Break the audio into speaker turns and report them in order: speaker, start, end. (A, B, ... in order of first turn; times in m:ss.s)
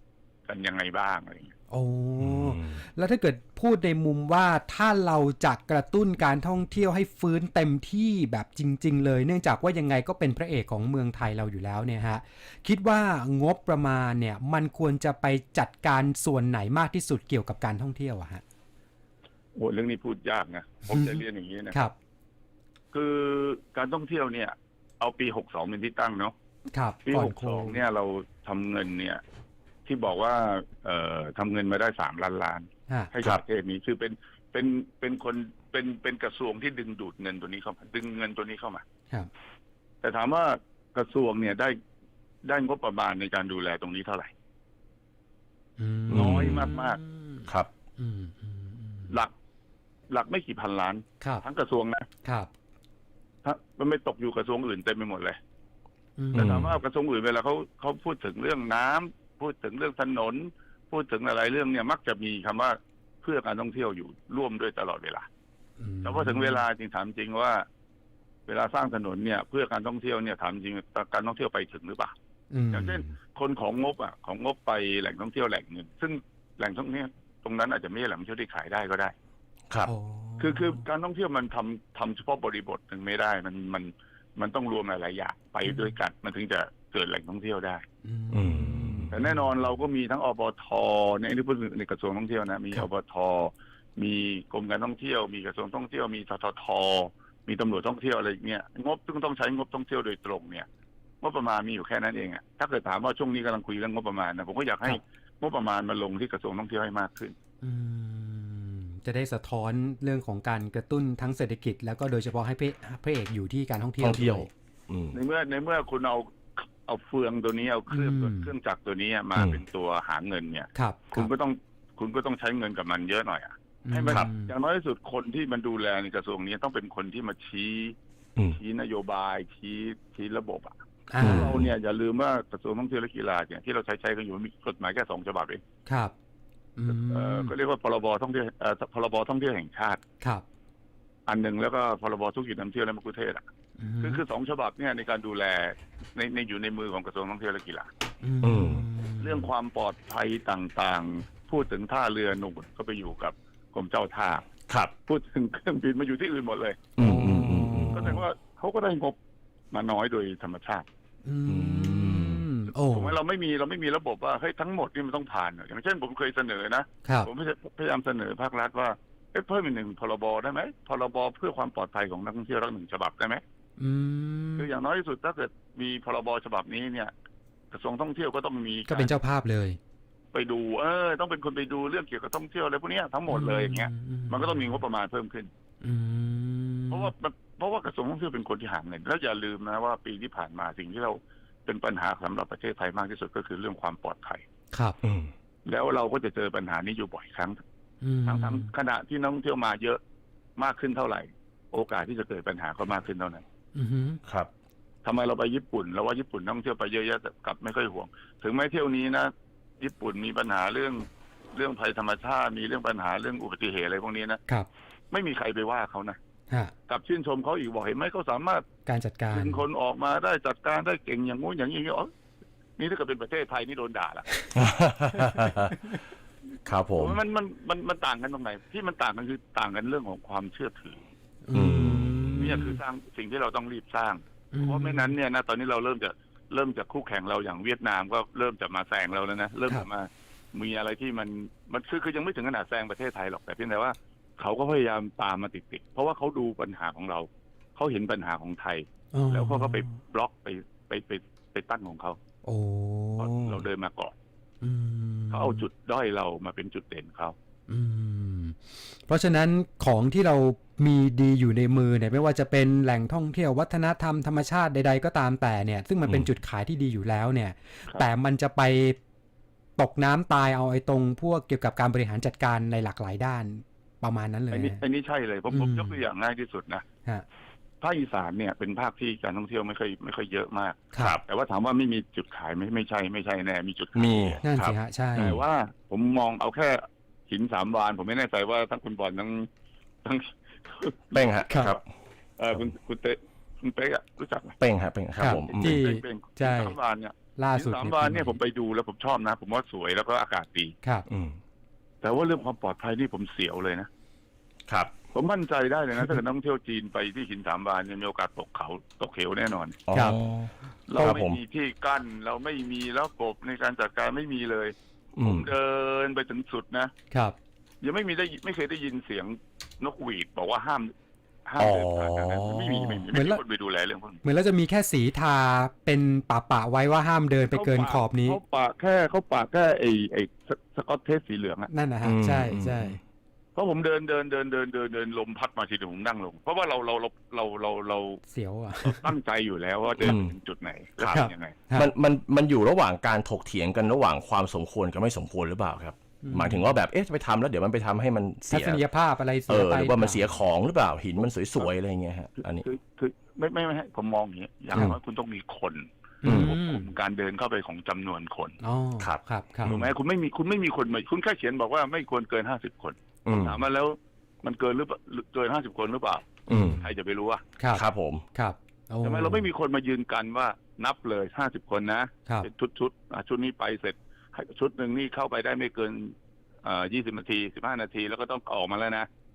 0:00.5-0:01.6 A
0:01.7-0:18.4 B
0:02.2-0:02.8 C
0:19.6-0:21.8 A
0:20.9-0:21.9 B
0:22.9-0:26.3 A
0:26.7-0:27.8 B
0:27.1-0:29.2 A
0:29.9-0:38.8 A
0:40.0-0:41.8 A
0:42.4-0:44.3 A
0:45.8-0:49.2 B
0:46.1-0:47.0 A
0:46.1-0:46.7 C
0:50.1-0:52.1 A
0:52.2-0:52.5 B
0:53.4-0:55.4 A
0:56.2-0:56.6 B
0:56.3-1:05.3 A
0:56.4-0:56.8 C
1:05.8-1:06.7 B
1:06.0-1:07.7 A
1:08.5-1:12.1 A
1:12.5-1:13.1 B
1:12.7-1:19.2 A
1:19.8-1:20.8 B
1:20.4-1:27.8 A
1:25.6-1:26.0 B
1:28.0-1:29.8 B
1:28.3-1:29.2 C
1:29.1-1:40.7 A
1:41.2-1:47.4 A
1:47.6-1:54.5 B
1:54.0-1:55.2 C
1:55.1-1:56.3 A
1:56.8-2:08.0 A
1:57.9-1:58.5 B
1:59.4-1:59.6 C
2:00.7-2:01.3 B
2:03.8-2:04.5 B
2:08.5-2:15.6 A
2:11.1-2:11.6 B
2:11.2-2:11.7 C
2:15.9-2:16.1 B
2:16.8-2:17.5 B
2:16.9-2:20.0 A
2:21.3-2:23.4 A
2:23.8-2:24.2 B
2:24.0-2:27.9 A
2:28.2-2:29.5 B
2:28.4-2:28.8 C
2:29.2-2:34.5 A
2:35.1-2:36.9 A
2:37.0-2:38.2 C
2:37.0-2:38.2 B
2:37.9-2:39.2 A
2:39.7-2:40.9 A
2:41.2-2:43.2 B
2:41.5-2:42.5 C
2:42.9-2:53.4 A
2:53.8-2:54.7 B
2:54.6-2:57.1 A
2:57.7-2:59.1 A
2:58.9-2:59.8 B
3:00.3-3:05.5 A
3:03.3-3:04.8 B
3:05.8-3:07.1 B
3:06.9-3:14.4 A
3:14.7-3:15.0 B
3:15.0-3:15.3 C
3:15.6-3:17.6 A
3:18.0-3:18.7 B
3:18.3-3:20.0 A
3:20.6-3:23.4 A
3:23.8-3:24.2 B
3:24.2-3:24.5 C
3:25.0-3:34.4 A
3:35.1-3:36.2 A
3:36.9-3:38.6 A
3:38.9-3:39.6 B
3:39.3-3:42.1 A
3:42.8-3:44.5 A
3:44.6-3:45.8 C
3:46.7-3:47.2 C
3:47.0-3:51.0 A
3:51.4-3:52.8 B
3:51.5-3:52.7 C
3:52.4-4:12.2 A
3:54.5-3:55.2 B
4:09.1-4:09.9 B
4:12.4-4:13.6 B
4:13.2-4:14.2 A
4:14.6-4:15.6 B
4:15.3-4:17.4 A
4:17.7-4:29.0 B
4:29.8-4:34.8 B
4:34.5-4:36.9 A
4:35.5-4:36.0 B
4:37.8-4:44.4 A
4:44.0-4:45.4 C
4:44.4-4:45.4 B
4:45.2-4:49.5 A
4:50.0-4:51.8 A
4:51.1-4:51.8 C
4:52.4-4:54.6 A
4:54.6-4:55.8 C
4:55.2-4:56.8 B
4:55.3-5:00.8 A
4:57.4-4:58.4 B
5:01.1-5:01.4 C
5:02.0-5:03.9 A
5:05.1-5:09.8 A
5:09.9-5:11.4 C
5:10.9-5:16.9 A
5:15.2-5:15.5 C
5:17.8-5:20.9 A
5:21.5-5:24.2 A
5:21.6-5:22.9 C
5:23.1-5:23.4 B
5:24.2-5:28.4 B
5:27.5-5:31.7 A
5:31.7-5:33.0 B
5:32.0-5:33.0 C
5:33.6-5:38.2 A
5:38.3-5:39.1 B
5:38.8-5:41.6 A
5:40.0-5:40.4 C
5:41.1-5:41.9 B
5:41.8-5:48.8 C
5:46.2-5:46.8 B
5:48.5-5:50.3 B
5:49.5-5:52.6 C
5:52.6-5:58.6 A
5:56.2-5:56.9 B
5:56.2-5:56.5 C
5:58.6-5:59.8 B
5:59.0-5:59.9 C
5:59.6-6:07.4 A
6:03.3-6:03.6 C
6:06.5-6:06.8 C
6:06.5-6:06.9 B
6:07.6-6:09.5 B
6:07.7-6:08.2 C
6:09.0-6:19.1 A